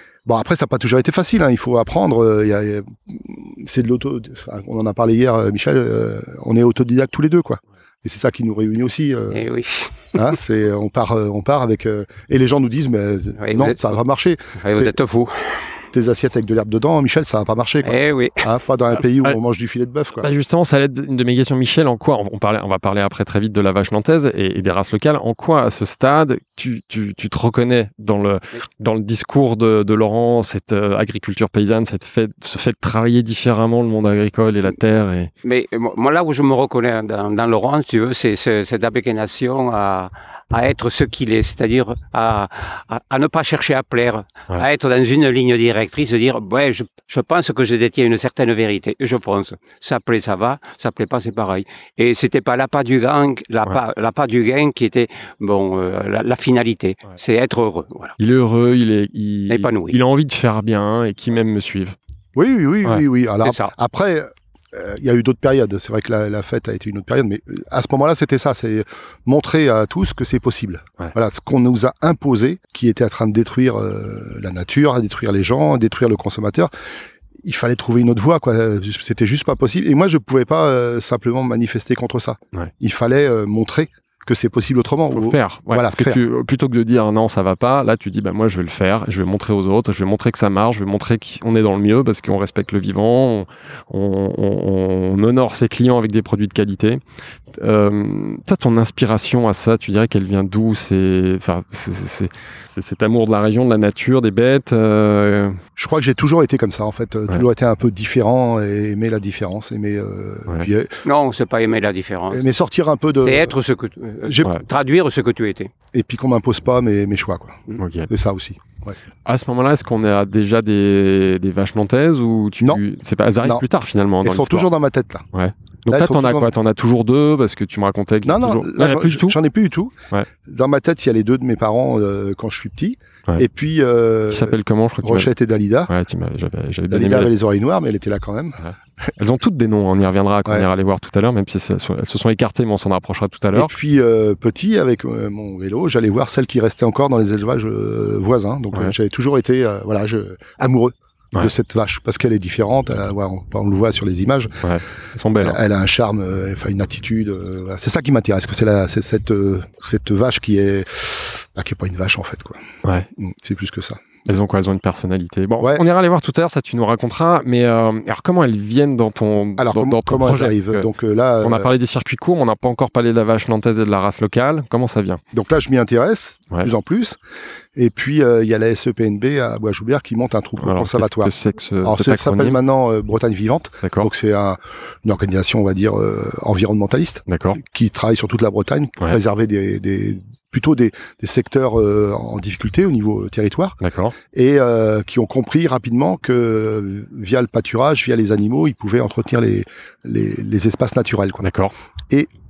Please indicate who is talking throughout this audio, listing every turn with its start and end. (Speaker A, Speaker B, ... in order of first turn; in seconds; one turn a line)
Speaker A: 0.2-9.4
Speaker B: 9.3-10.2
Speaker A: 10.2-14.9
Speaker B: 13.4-13.9
Speaker B: 14.6-15.7
Speaker A: 15.9-20.3
Speaker B: 17.8-18.5
Speaker C: 20.2-35.3
Speaker B: 35.4-58.2
Speaker C: 58.2-62.0
Speaker B: 59.5-60.0
Speaker A: 62.4-76.7
Speaker B: 63.4-63.7
Speaker A: 77.4-86.2
Speaker C: 85.1-97.0
Speaker C: 97.5-105.6
Speaker A: 105.8-111.0
Speaker B: 111.0-112.5
Speaker A: 112.3-113.6
Speaker B: 113.2-115.7
Speaker A: 114.3-114.6
Speaker A: 115.9-119.0
Speaker C: 117.8-118.1
Speaker C: 119.3-124.7
Speaker A: 124.2-125.3
Speaker C: 125.3-129.4
Speaker A: 125.9-126.5
Speaker A: 128.2-135.9
Speaker C: 134.3-135.3
Speaker C: 135.9-137.3
Speaker A: 136.9-139.1
Speaker C: 138.6-143.7
Speaker A: 143.5-154.6
Speaker C: 154.6-155.6
Speaker A: 155.4-162.6
Speaker A: 163.2-164.1
Speaker C: 164.3-170.9
Speaker A: 169.6-171.7
Speaker C: 171.4-175.2
Speaker A: 175.3-177.2
Speaker A: 177.8-193.8
Speaker C: 180.6-182.6
Speaker C: 183.8-184.1
Speaker C: 187.3-187.6
Speaker C: 193.8-194.2
Speaker A: 194.3-201.5
Speaker C: 201.4-201.7